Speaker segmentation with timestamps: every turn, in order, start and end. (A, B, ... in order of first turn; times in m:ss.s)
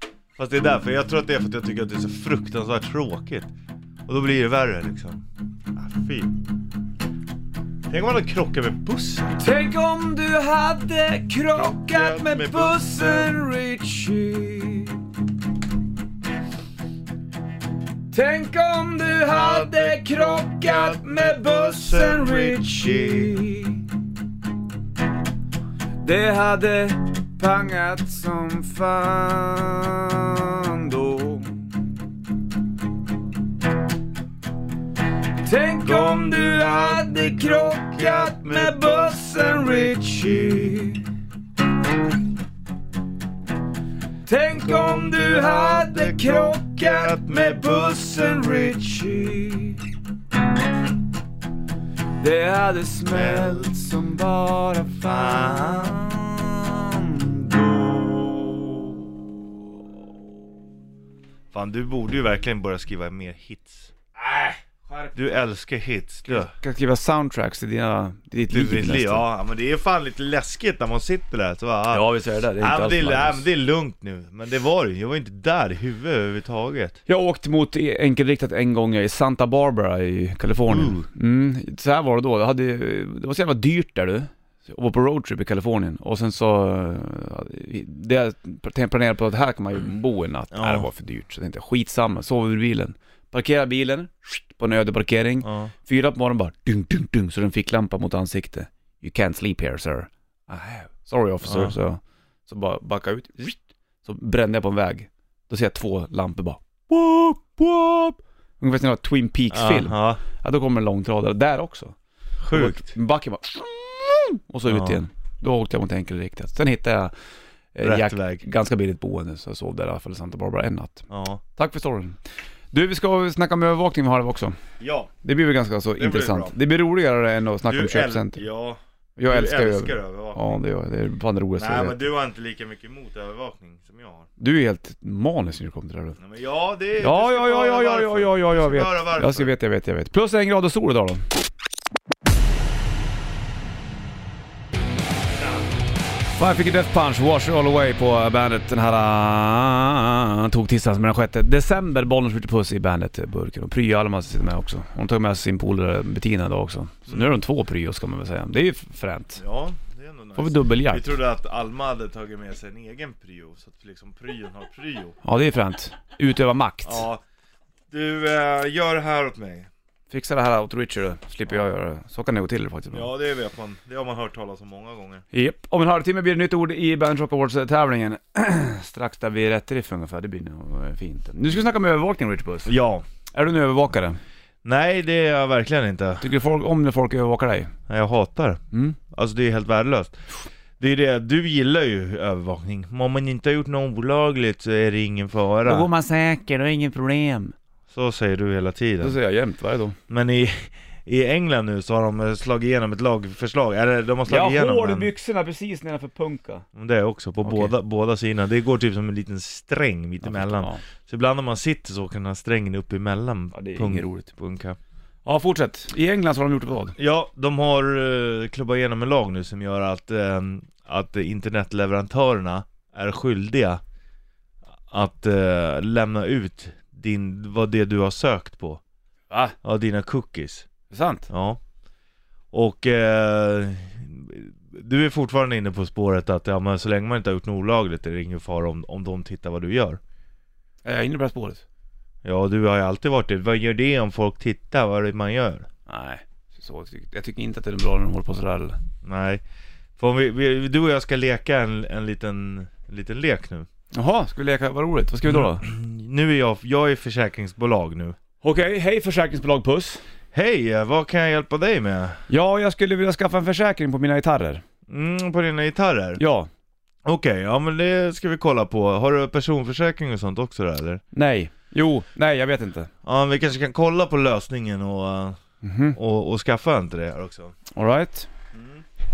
0:00.4-0:03.5 A
0:04.1-0:06.4 A
0:07.9-0:09.4 A
0:09.4-0:15.0 B
0:11.5-0:13.3 A
0:18.1-0:23.9 B
0:19.3-0:23.4 A
0:26.0-0:31.6 B
0:35.4-0:41.1 B
0:35.8-0:40.7 A
0:44.2-0:49.8 B
0:44.5-0:47.7 A
0:52.2-0:58.7 B
0:53.1-0:53.7 A
0:55.0-0:56.2 A
1:01.5-1:03.9 A
1:04.2-1:05.1 B
1:05.1-1:06.5 A
1:06.3-1:09.2 B
1:08.5-1:17.0 A
1:11.9-1:13.5 B
1:17.1-1:52.0 B
1:20.7-1:21.0 A
1:30.5-1:30.9 A
1:35.4-1:35.7 A
1:41.4-1:41.7 A
1:49.5-1:50.2 A
1:52.4-1:52.9 A
1:52.5-1:57.1 B
1:54.7-1:55.0 A
1:57.7-2:02.2 B
1:57.8-1:58.4 A
2:01.1-2:01.4 A
2:02.7-2:04.6 B
2:04.8-2:05.1 A
2:05.2-2:08.4 B
2:06.0-2:06.6 A
2:07.7-2:10.6 A
2:09.2-2:12.0 B
2:11.6-2:14.3 A
2:14.4-2:16.2 B
2:16.2-2:19.5 A
2:17.0-2:21.2 B
2:26.4-2:39.4 B
2:37.1-2:37.3 A
2:39.4-2:45.2 A
2:40.4-2:41.1 B
2:45.2-2:47.0 B
2:46.8-2:47.2 A
2:47.9-2:49.7 A
2:50.1-2:53.1 B
2:52.9-2:55.2 A
2:55.3-3:02.7 B
3:02.6-3:03.0 A
3:03.3-3:04.2 B
3:04.6-3:06.3 A
3:06.2-3:07.7 B
3:07.9-3:10.2 A
3:08.7-3:09.0 B
3:10.8-3:15.9 A
3:15.6-3:17.6 B
3:17.9-3:19.2 A
3:19.0-3:20.0 B
3:20.1-3:25.1 A
3:24.3-3:26.6 B
3:26.8-3:34.8 A
3:27.4-3:27.7 B
3:30.2-3:30.8 B
3:33.5-3:34.3 B
3:35.2-3:37.0 B
3:37.0-3:43.8 A
3:44.9-3:48.8 A
3:49.3-3:49.6 B
3:49.6-3:50.7 A
3:50.9-3:51.3 B
3:51.3-3:51.6 A
3:52.5-4:00.0 A
4:00.8-4:01.6 B
4:02.2-4:05.7 A
4:05.9-4:08.8 B
4:09.0-4:09.4 A
4:10.0-4:13.7 A
4:13.9-4:15.6 B
4:15.3-4:18.2 A
4:18.4-4:20.0 B
4:20.3-4:22.2 A
4:22.3-4:24.6 B
4:24.9-4:26.2 A
4:26.2-4:26.5 B
4:27.0-4:31.0 A
4:31.1-4:32.9 B
4:33.0-4:35.4 A
4:35.6-4:36.0 B
4:35.9-4:37.6 A
4:37.7-4:38.3 B
4:38.5-4:38.8 A